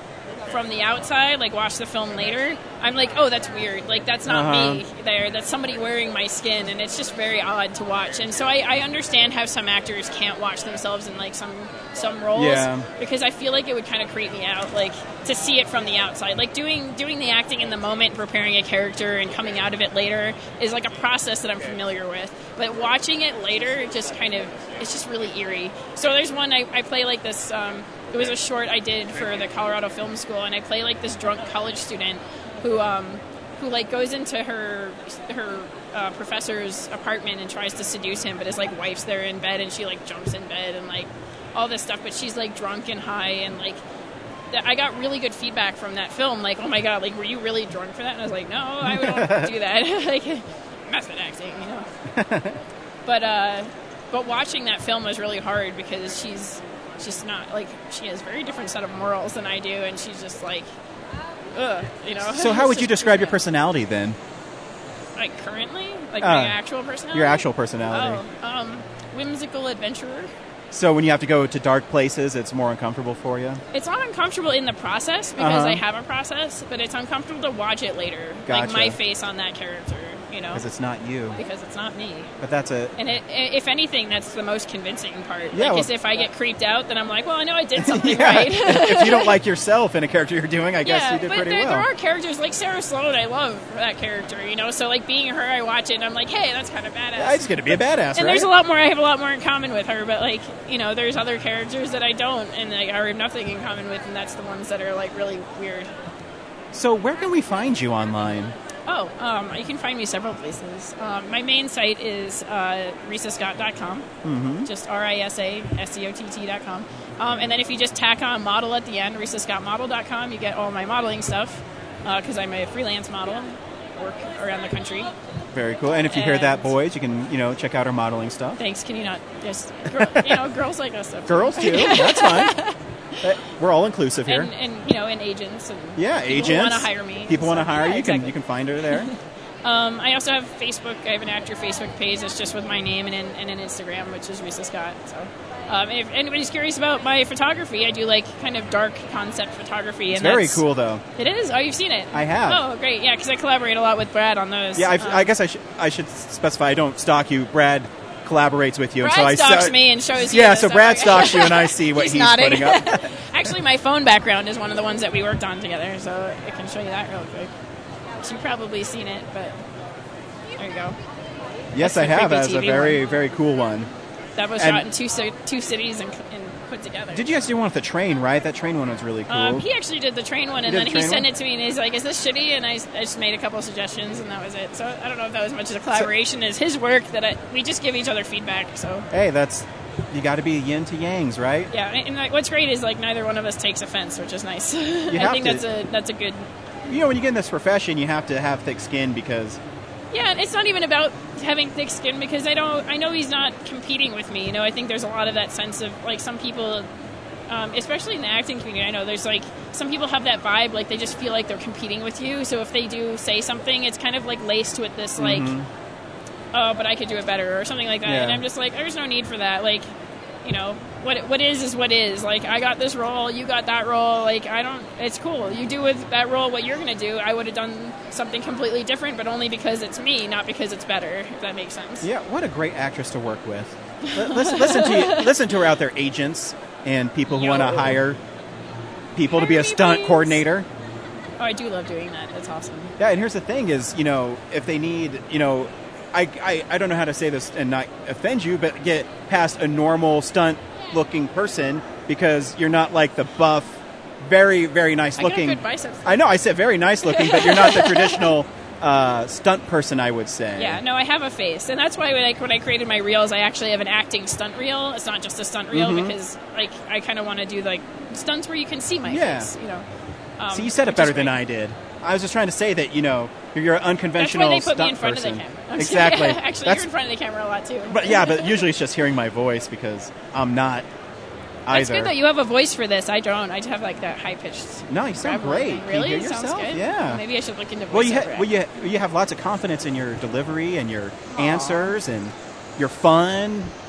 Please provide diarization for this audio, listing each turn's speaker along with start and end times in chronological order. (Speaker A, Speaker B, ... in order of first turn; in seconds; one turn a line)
Speaker A: 0.5-43.8
Speaker B: 4.2-4.8
Speaker B: 12.3-12.9
Speaker A: 44.5-51.9
Speaker B: 48.8-49.5
Speaker B: 52.1-52.6
Speaker A: 53.0-60.7
Speaker A: 61.5-63.4
Speaker B: 62.2-64.2
Speaker A: 65.2-70.3
Speaker B: 66.2-66.6
Speaker B: 67.1-68.2
Speaker B: 70.7-73.6
Speaker A: 73.7-80.6
Speaker B: 75.4-75.8
Speaker B: 78.5-79.0
Speaker B: 80.5-81.4
Speaker A: 81.4-82.3
Speaker B: 82.4-82.9
Speaker A: 83.0-89.4
Speaker B: 85.5-85.9
Speaker B: 87.8-91.9
Speaker A: 90.8-105.9
Speaker B: 97.2-98.5
Speaker B: 106.7-108.5
Speaker A: 108.9-114.1
Speaker B: 114.2-114.7
Speaker A: 114.6-125.1
Speaker B: 125.5-128.6
Speaker A: 126.1-126.7
Speaker A: 128.6-132.8
Speaker B: 129.9-130.4
Speaker B: 131.3-132.6
Speaker B: 133.2-134.5
Speaker A: 134.2-150.6
Speaker B: 136.0-139.1
Speaker B: 150.1-151.0
Speaker A: 151.1-155.3
Speaker B: 152.1-152.6
Speaker B: 154.8-163.2
Speaker A: 159.0-167.5
Speaker A: 168.2-169.5
Speaker A: 170.6-171.0
Speaker B: 171.7-173.9
Speaker A: 171.8-173.1
Speaker A: 174.4-177.3
Speaker B: 174.6-174.9
Speaker B: 177.1-179.6
Speaker A: 179.3-189.1
Speaker B: 180.6-181.3
Speaker B: 189.1-191.7
Speaker A: 191.7-196.5
Speaker B: 195.1-195.6
Speaker B: 196.9-199.6
Speaker A: 200.1-206.9
Speaker A: 207.5-215.5
Speaker B: 215.2-215.7
Speaker A: 216.5-219.8
Speaker B: 218.0-218.4
Speaker A: 220.4-232.1
Speaker B: 232.0-238.2
Speaker A: 234.1-235.5
Speaker A: 237.3-238.0
Speaker B: 239.1-240.7
Speaker A: 239.3-240.4
Speaker A: 241.4-242.9
Speaker B: 243.0-260.8
Speaker A: 255.2-256.2
Speaker A: 257.0-258.4
Speaker A: 260.6-269.9
Speaker B: 265.7-266.1
Speaker B: 269.1-269.5
Speaker A: 270.4-271.4
Speaker B: 270.5-276.9
Speaker A: 274.2-278.6
Speaker B: 277.9-280.9
Speaker B: 281.6-282.1
Speaker A: 281.7-288.5
Speaker B: 284.9-287.2
Speaker B: 287.9-293.7
Speaker A: 291.3-292.0